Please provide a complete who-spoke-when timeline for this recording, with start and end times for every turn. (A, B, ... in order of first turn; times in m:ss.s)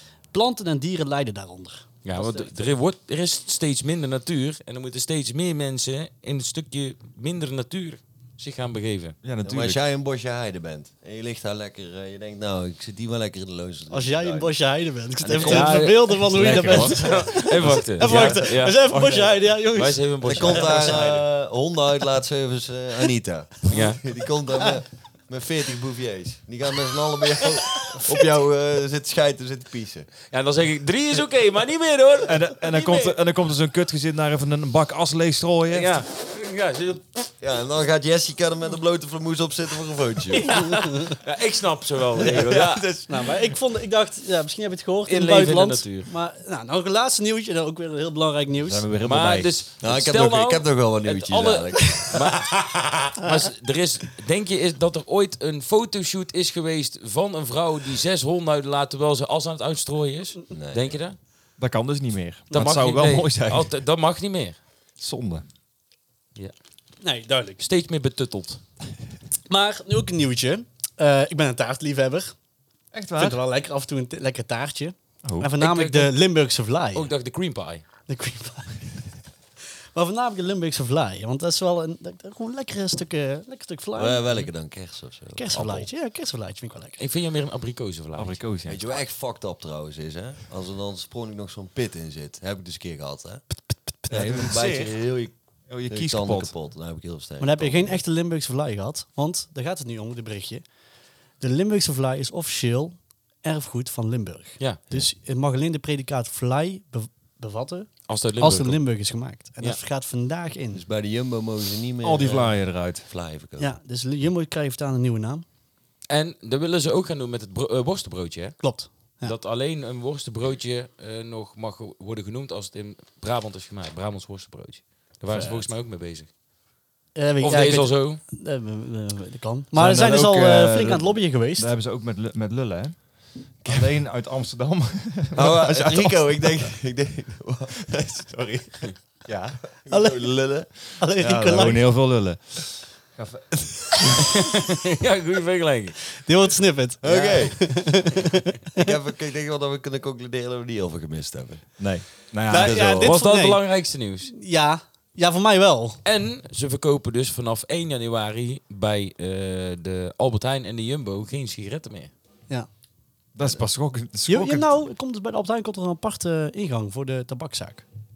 0:00.3-0:02.5 A
0:02.0-0:09.2 B
0:09.2-0:09.8 C
0:09.4-0:14.5 D
0:13.9-0:21.1 A
0:15.2-0:17.1 D
0:15.4-0:18.8 B
0:16.4-0:19.4 C
0:19.7-0:21.2 B
0:20.2-0:30.1 D
0:23.7-0:24.0 B
0:30.3-0:33.1 B
0:32.2-0:36.0 C
0:35.7-0:37.3 B
0:37.4-0:40.6 D
0:40.3-0:42.8 B
0:40.6-0:41.2 A
0:42.2-0:43.3 D
0:43.1-0:48.8 A
0:45.1-0:46.1 B
0:48.6-0:49.6 C
0:49.0-0:52.5 B
0:49.8-0:53.2 D
0:53.2-1:01.2 B
1:00.5-1:01.0 D
1:01.6-1:03.7 C
1:02.5-1:04.6 B
1:05.0-1:05.4 C
1:07.0-1:07.6 A
1:07.6-1:08.6 B
1:09.5-1:12.3 A
1:12.9-1:13.4 C
1:13.2-1:17.1 A
1:15.2-1:15.5 C
1:15.6-1:16.1 B
1:16.9-1:17.8 B
1:18.1-1:18.8 A
1:19.9-1:24.2 A
1:24.0-1:25.9 D
1:25.3-1:27.0 A
1:27.0-1:28.4 B
1:28.2-1:28.8 C
1:28.6-1:33.4 D
1:34.1-1:35.3 D
1:34.1-1:35.0 C
1:35.7-1:36.5 C
1:35.9-1:38.0 D
1:37.4-1:40.6 A
1:41.4-1:50.8 A
1:48.1-1:48.8 B
1:50.7-1:53.7 D
1:52.0-1:53.0 C
1:53.6-1:55.4 A
1:56.1-2:06.3 B
1:58.6-1:59.4 A
2:05.3-2:05.7 C
2:07.1-2:11.7 A
2:07.4-2:08.2 B
2:09.7-2:13.0 C
2:13.6-2:16.7 C
2:15.3-2:18.9 D
2:19.2-2:19.6 C
2:19.8-2:20.7 D
2:19.9-2:21.9 A
2:21.2-2:24.2 C
2:24.3-2:26.0 B
2:26.2-2:28.9 A
2:27.0-2:27.9 D
2:28.8-2:31.9 D
2:31.8-2:32.8 C
2:32.5-2:36.0 A
2:32.5-2:33.1 D
2:32.9-2:34.3 B
2:36.0-2:42.1 B
2:43.3-2:44.7 C
2:44.3-2:47.8 A